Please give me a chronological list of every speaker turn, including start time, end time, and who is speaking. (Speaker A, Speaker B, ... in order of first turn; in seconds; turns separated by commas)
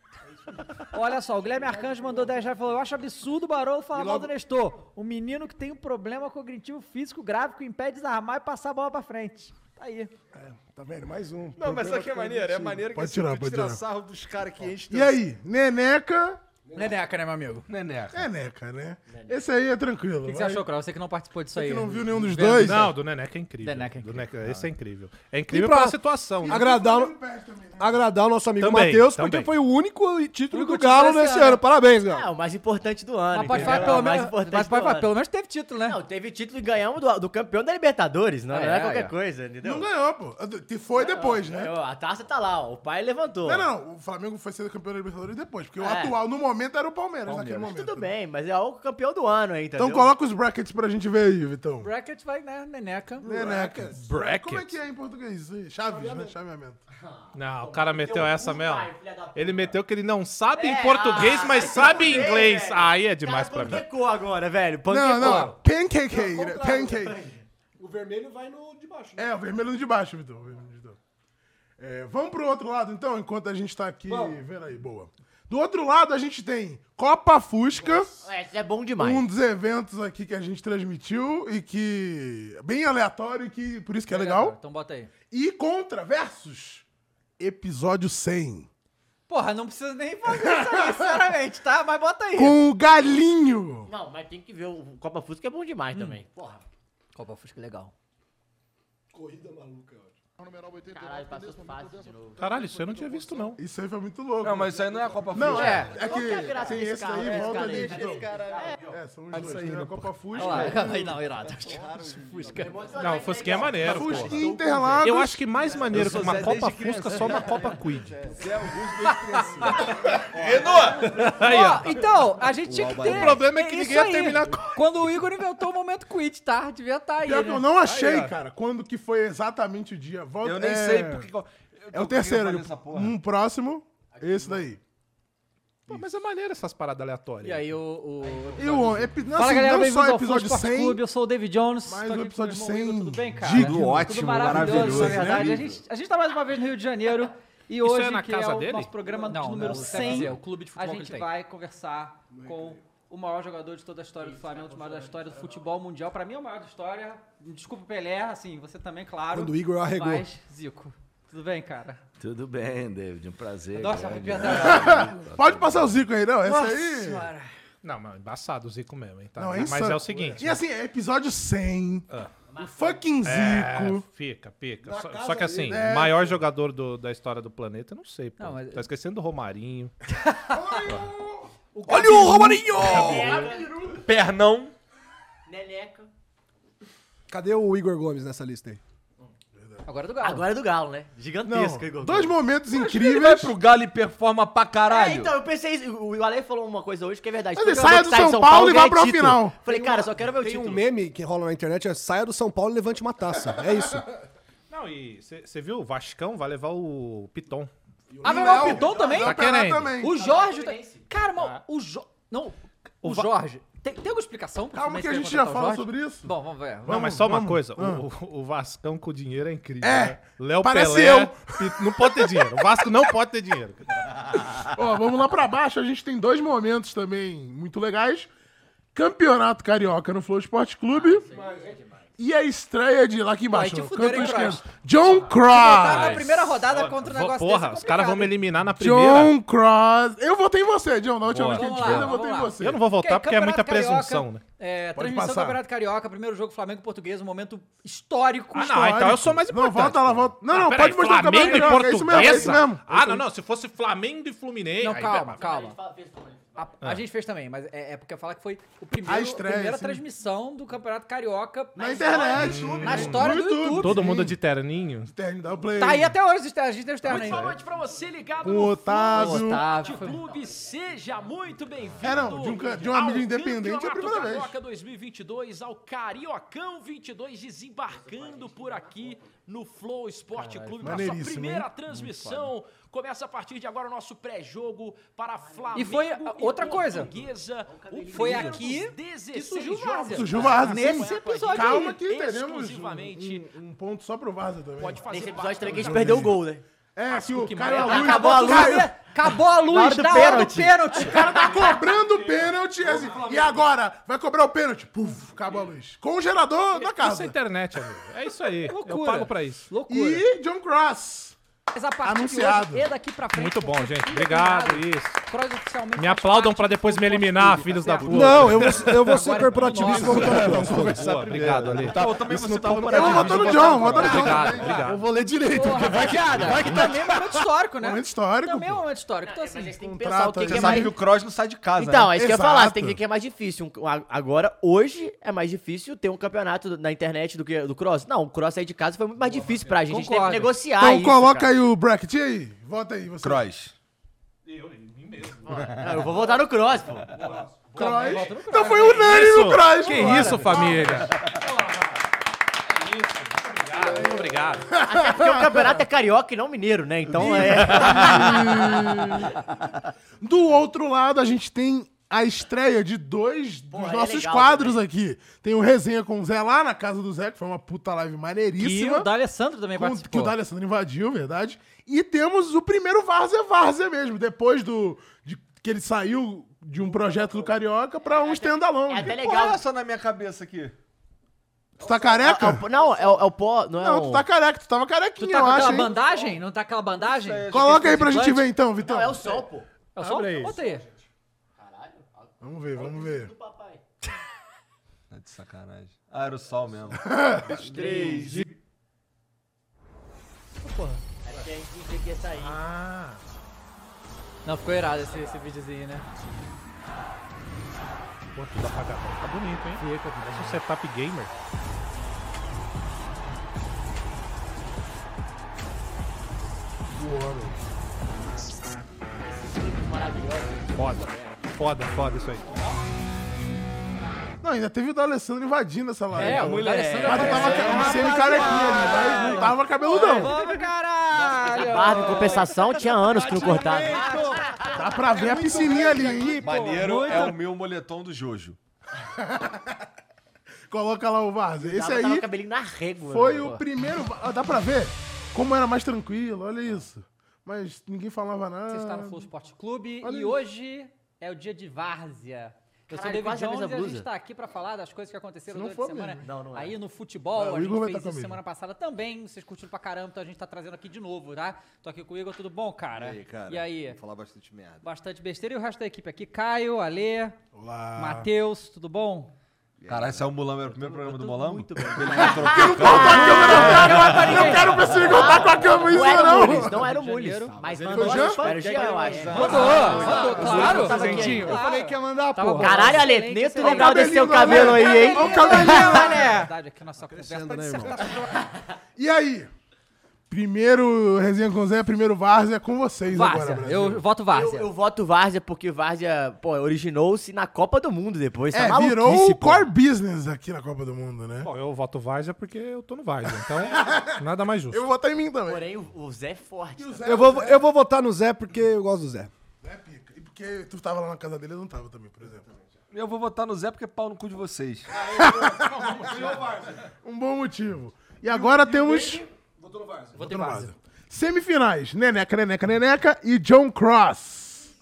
Speaker A: 0.9-10.1, Speaker B: 3.9-4.3, Speaker C: 10.3-11.9, Speaker B: 11.6-12.7, Speaker D: 11.6-15.2, Speaker C: 12.6-13.8, Speaker C: 14.9-16.4, Speaker B: 16.6-17.0, Speaker A: 16.7-17.6, Speaker D: 17.7-18.3, Speaker C: 18.1-20.6, Speaker E: 19.1-19.4, Speaker A: 20.2-21.9, Speaker C: 21.5-22.9, Speaker F: 22.3-26.7, Speaker A: 23.6-24.2, Speaker B: 25.5-27.1, Speaker C: 26.4-28.0, Speaker B: 27.8-32.3, Speaker F: 28.6-29.5, Speaker A: 30.5-31.6, Speaker E: 32.1-35.1, Speaker A: 33.3-36.0, Speaker B: 33.5-34.1, Speaker E: 35.8-39.9, Speaker A: 38.5-39.1, Speaker C: 39.6-41.7, Speaker E: 40.9-43.7, Speaker C: 43.4-48.1, Speaker E: 45.8-46.2, Speaker A: 47.2-47.6, Speaker E: 47.6-50.1, Speaker C: 49.8-51.9, Speaker A: 51.8-53.3, Speaker B: 53.2-53.9, Speaker C: 53.2-56.8, Speaker F: 53.9-54.8, Speaker B: 55.9-56.3, Speaker E: 56.9-59.8, Speaker F: 57.3-63.9, Speaker E: 60.5-65.5, Speaker C: 64.9-67.2, Speaker A: 65.1-65.5, Speaker B: 66.1-66.9, Speaker E: 66.6-67.4, Speaker B: 67.8-69.3, Speaker C: 69.2-71.0, Speaker C: 71.8-78.1, Speaker B: 74.1-74.4, Speaker B: 77.7-78.2, Speaker E: 78.2-79.2, Speaker C: 79.0-84.5, Speaker A: 84.1-85.1, Speaker C: 85.3-86.8, Speaker C: 87.4-88.7, Speaker A: 89.3-92.6, Speaker C: 90.3-91.2, Speaker C: 92.3-93.9, Speaker E: 93.9-96.6, Speaker A: 95.9-96.2, Speaker A: 97.1-97.9, Speaker B: 99.1-100.2, Speaker G: 100.4-103.2, Speaker E: 100.9-102.4, Speaker F: 102.4-103.6, Speaker C: 103.5-104.8, Speaker D: 104.4-106.6, Speaker C: 105.3-108.3, Speaker A: 105.4-105.9, Speaker E: 105.9-108.9, Speaker D: 107.3-108.7, Speaker C: 108.9-111.1, Speaker B: 109.3-110.1, Speaker A: 110.3-112.7, Speaker D: 111.4-112.6, Speaker E: 112.6-114.3, Speaker F: 113.0-118.2, Speaker C: 113.8-115.4, Speaker D: 115.8-121.2, Speaker B: 119.0-119.8, Speaker A: 119.3-119.8, Speaker A: 121.1-127.7, Speaker F: 121.2-122.1, Speaker D: 122.5-123.5, Speaker F: 123.0-124.8, Speaker C: 127.2-131.3, Speaker F: 127.8-128.3, Speaker D: 130.4-133.2, Speaker C: 131.9-134.8, Speaker E: 134.1-134.6, Speaker F: 135.9-137.7, Speaker A: 137.4-162.0, Speaker E: 138.2-138.8, Speaker C: 138.6-141.0, Speaker C: 141.8-145.5, Speaker D: 143.4-145.8, Speaker F: 147.8-149.5, Speaker B: 149.0-150.4, Speaker B: 152.3-152.8, Speaker E: 154.4-155.2, Speaker B: 159.3-160.3, Speaker G: 162.2-165.8, Speaker A: 163.7-165.1, Speaker C: 164.4-167.3, Speaker A: 166.4-167.5, Speaker F: 167.8-170.6, Speaker C: 169.3-172.1, Speaker E: 172.5-173.0, Speaker C: 172.6-174.1, Speaker F: 173.2-179.9, Speaker B: 174.8-175.9, Speaker C: 175.7-176.4, Speaker A: 178.4-178.8, Speaker A: 180.1-180.8, Speaker C: 180.5-182.3, Speaker A: 181.7-183.0, Speaker D: 181.8-184.7, Speaker E: 182.9-184.0, Speaker E: 185.4-186.1, Speaker B: 187.3-188.8, Speaker C: 189.5-189.8, Speaker A: 189.8-190.4, Speaker E: 190.2-192.4, Speaker C: 191.4-193.5, Speaker D: 192.7-195.4, Speaker E: 194.8-200.8, Speaker C: 197.5-199.6, Speaker B: 199.6-204.1, Speaker F: 204.7-207.7, Speaker B: 208.2-208.6, Speaker C: 208.2-210.2, Speaker A: 208.2-209.4, Speaker E: 208.7-209.3, Speaker F: 209.1-209.9, Speaker A: 210.0-217.0, Speaker E: 210.0-211.0, Speaker F: 213.0-213.3, Speaker C: 214.7-216.3, Speaker C: 216.8-218.0, Speaker F: 216.9-224.1, Speaker C: 219.8-222.6, Speaker C: 224.6-228.3, Speaker C: 228.9-231.2, Speaker E: 230.9-232.1, Speaker B: 231.3-231.8, Speaker C: 232.2-236.2, Speaker A: 233.5-234.6, Speaker A: 235.4-238.4, Speaker F: 235.8-239.3, Speaker C: 238.7-242.8, Speaker F: 241.3-244.4, Speaker A: 241.5-248.8, Speaker C: 244.9-245.6, Speaker F: 248.5-255.4, Speaker C: 248.6-253.2, Speaker A: 251.4-252.5, Speaker A: 254.8-255.8, Speaker E: 255.3-256.8, Speaker A: 256.6-262.2, Speaker C: 259.0-260.0, Speaker E: 261.8-263.1, Speaker C: 261.8-264.4, Speaker F: 262.3-265.1, Speaker A: 262.8-264.0, Speaker C: 265.1-266.1, Speaker A: 265.8-267.5, Speaker F: 267.0-267.6, Speaker G: 267.1-293.5, Speaker C: 268.4-269.7, Speaker A: 269.1-270.2, Speaker E: 269.7-270.7, Speaker C: 272.0-274.6, Speaker E: 278.1-278.9, Speaker A: 280.6-281.1, Speaker C: 280.8-281.7, Speaker A: 282.0-282.4, Speaker E: 285.5-285.9, Speaker A: 285.7-287.1, Speaker E: 287.7-288.7, Speaker A: 288.1-292.0, Speaker C: 290.1-295.1, Speaker G: 294.8-296.3, Speaker E: 295.0-296.6, Speaker C: 295.6-296.4, Speaker C: 296.9-298.9, Speaker G: 297.1-298.0, Speaker E: 297.6-298.9, Speaker A: 297.8-301.3, Speaker E: 299.6-301.7, Speaker C: 300.9-307.4, Speaker F: 301.8-303.6, Speaker F: 306.7-309.7, Speaker A: 308.6-310.2, Speaker C: 309.9-311.4, Speaker A: 311.7-320.7, Speaker C: 312.0-312.9, Speaker F: 313.3-315.2, Speaker F: 316.0-322.2, Speaker B: 318.1-321.1, Speaker C: 319.9-321.3, Speaker D: 321.5-324.6, Speaker C: 321.9-327.1, Speaker A: 322.9-329.8, Speaker F: 323.8-325.1, Speaker C: 327.8-328.8, Speaker E: 329.2-331.0, Speaker C: 329.8-330.9, Speaker D: 330.5-332.1, Speaker E: 331.8-341.5, Speaker C: 332.1-333.0, Speaker A: 339.8-340.6, Speaker C: 340.7-343.4, Speaker D: 343.2-343.7, Speaker F: 344.4-345.8, Speaker E: 345.5-347.1, Speaker D: 345.5-346.0, Speaker F: 347.1-351.9, Speaker C: 347.7-350.9, Speaker A: 347.8-349.3, Speaker A: 349.8-350.4, Speaker D: 350.8-351.1, Speaker F: 352.7-354.7, Speaker C: 353.7-355.8, Speaker E: 354.8-358.9, Speaker C: 357.1-359.4, Speaker D: 357.4-358.3, Speaker C: 360.2-369.1, Speaker E: 363.7-364.8, Speaker A: 368.6-370.3, Speaker C: 369.7-379.1, Speaker E: 378.0-379.6, Speaker D: 379.0-380.7, Speaker C: 381.8-382.6, Speaker E: 381.8-384.2, Speaker C: 383.8-385.9, Speaker A: 385.2-388.5, Speaker D: 387.0-388.1, Speaker C: 387.5-389.4, Speaker E: 388.8-389.7, Speaker A: 389.9-390.9, Speaker F: 390.0-390.6, Speaker E: 391.6-393.8, Speaker C: 392.4-393.3, Speaker D: 395.1-398.5, Speaker C: 397.0-397.6, Speaker E: 397.5-398.4, Speaker A: 400.6-401.0, Speaker E: 401.2-402.6, Speaker F: 402.4-403.2, Speaker A: 404.4-406.0, Speaker F: 408.3-411.3, Speaker A: 409.8-410.6, Speaker C: 416.9-417.6, Speaker E: 419.4-421.4, Speaker F: 420.7-422.5, Speaker C: 424.4-430.4, Speaker A: 426.1-437.4, Speaker D: 426.2-428.5, Speaker E: 426.4-427.9, Speaker E: 431.2-434.8, Speaker C: 434.7-436.6, Speaker B: 435.3-436.3, Speaker D: 435.8-438.6, Speaker C: 439.2-439.7, Speaker C: 440.7-442.3, Speaker E: 441.6-443.5, Speaker C: 443.0-449.3, Speaker A: 448.7-464.0, Speaker C: 450.0-450.4, Speaker E: 452.9-454.1, Speaker C: 455.5-456.2, Speaker E: 456.2-456.8, Speaker C: 457.3-458.4, Speaker D: 462.9-464.8, Speaker A: 464.8-467.4, Speaker C: 467.5-468.3, Speaker A: 468.0-469.3, Speaker D: 469.8-475.1, Speaker E: 470.6-481.6, Speaker C: 472.2-476.8, Speaker A: 473.0-475.3, Speaker A: 475.8-477.6, Speaker C: 477.9-478.4, Speaker A: 479.3-488.4, Speaker B: 479.8-483.0, Speaker C: 480.3-481.0, Speaker E: 482.6-486.3, Speaker C: 483.6-486.5, Speaker B: 487.0-488.1, Speaker C: 488.9-489.5, Speaker C: 490.3-494.0, Speaker A: 493.1-494.7, Speaker E: 494.3-499.7, Speaker C: 498.5-501.5, Speaker F: 501.4-504.9, Speaker C: 503.5-505.7, Speaker E: 505.4-507.2, Speaker C: 506.8-507.6, Speaker B: 507.0-509.3, Speaker C: 509.6-512.5, Speaker D: 512.9-514.9, Speaker B: 514.9-516.8, Speaker C: 515.0-516.4, Speaker C: 517.0-519.2, Speaker B: 518.3-520.3, Speaker A: 520.2-520.7, Speaker C: 520.2-524.7